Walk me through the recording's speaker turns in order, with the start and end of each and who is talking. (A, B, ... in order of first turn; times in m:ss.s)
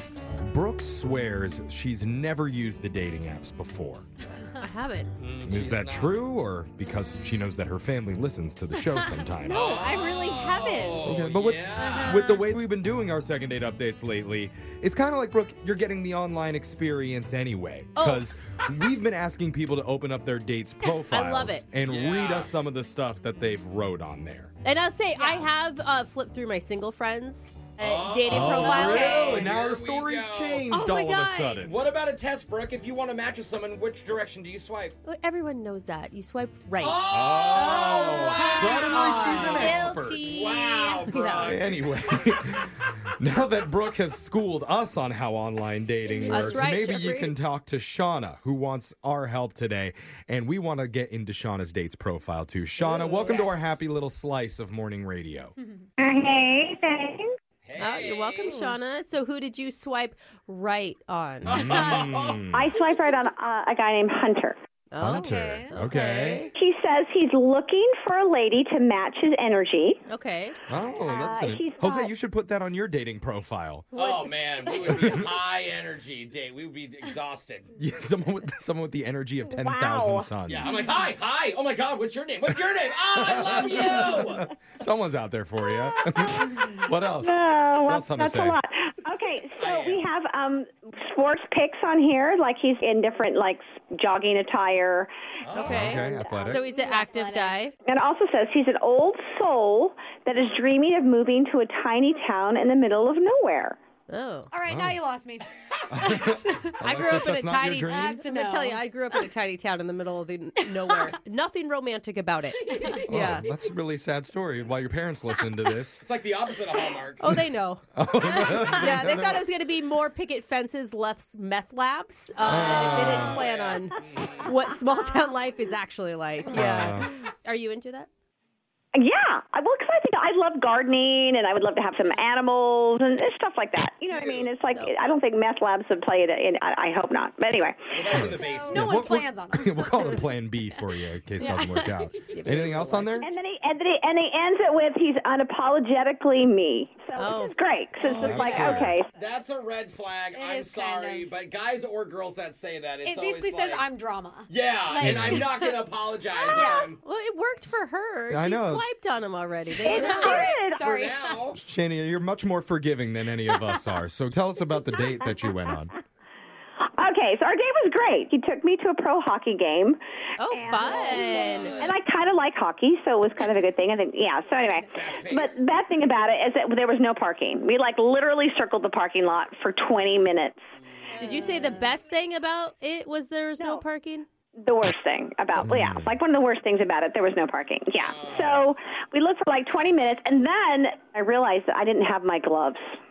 0:00.4-0:04.1 A
0:04.6-0:05.1 B
0:05.2-0:06.2 C
0:05.4-0:09.8 A
0:09.5-0:11.1 B
0:09.5-0:12.3 C
0:11.0-0:24.5 A
0:11.8-0:12.4 D
0:18.0-0:18.3 B
0:21.1-0:21.6 B
0:21.8-0:22.5 C
0:24.6-0:29.5 B
0:25.1-0:25.5 D
0:27.8-0:30.8 C
0:28.2-0:31.8 A
0:28.6-0:29.5 D
0:30.7-0:31.6 D
0:31.6-0:35.0 C
0:35.0-0:37.0 B
0:36.8-0:42.3 C
0:37.1-0:40.4 A
0:37.5-0:39.9 B
0:38.0-0:41.1 D
0:41.0-0:41.5 B
0:41.4-0:55.5 A
0:46.3-0:47.3 B
0:53.3-0:53.7 D
0:56.0-0:57.2 E
0:57.6-0:58.6 C
0:57.8-1:01.6 B
1:01.4-1:02.6 A
1:01.7-1:02.3 C
1:02.5-1:04.6 E
1:04.9-1:06.5 B
1:05.0-1:06.5 A
1:05.1-1:05.7 D
1:06.5-1:10.0 E
1:10.1-1:10.6 B
1:10.7-1:13.9 A
1:10.9-1:12.1 E
1:13.9-1:17.7 C
1:14.7-1:15.1 E
1:17.8-1:20.9 A
1:19.5-1:20.8 E
1:20.4-1:24.5 C
1:23.2-1:28.6 A
1:25.6-1:26.6 E
1:27.2-1:36.5 E
1:29.6-1:30.0 C
1:35.4-1:36.0 C
1:35.5-1:37.7 B
1:35.6-1:36.6 A
1:36.5-1:37.6 D
1:37.8-1:43.8 E
1:44.1-1:44.5 B
1:44.5-1:46.8 D
1:44.6-1:45.0 A
1:45.9-1:48.2 A
1:46.8-1:53.5 B
1:47.8-1:49.3 D
1:50.7-1:51.1 D
1:52.7-1:53.0 D
1:53.1-1:56.1 A
1:56.0-1:57.2 C
1:57.2-2:08.1 B
1:57.9-1:59.4 A
2:02.4-2:04.7 C
2:02.4-2:03.4 A
2:06.5-2:07.1 A
2:08.9-2:18.4 E
2:14.1-2:14.5 C
2:14.7-2:14.9 B
2:17.9-2:19.0 C
2:18.1-2:23.3 A
2:18.6-2:20.8 D
2:21.4-2:22.1 D
2:22.3-2:23.3 B
2:23.2-2:29.1 E
2:27.2-2:27.5 B
2:28.0-2:33.9 C
2:28.2-2:29.0 A
2:30.3-2:31.3 D
2:33.0-2:35.8 D
2:34.5-2:37.0 C
2:35.0-2:35.5 A
2:36.5-2:36.9 D
2:37.0-2:40.5 B
2:38.3-2:38.8 A
2:39.8-2:40.8 E
2:39.9-2:41.4 D
2:40.7-2:41.6 C
2:41.6-2:45.9 A
2:46.9-2:50.0 E
2:50.4-2:51.7 B
2:50.5-3:00.6 E
2:50.8-2:52.0 C
2:54.8-2:55.6 C
3:00.8-3:01.8 C
3:01.1-3:01.8 D
3:01.2-3:04.2 B
3:04.6-3:12.8 E
3:05.6-3:06.1 A
3:08.0-3:08.7 C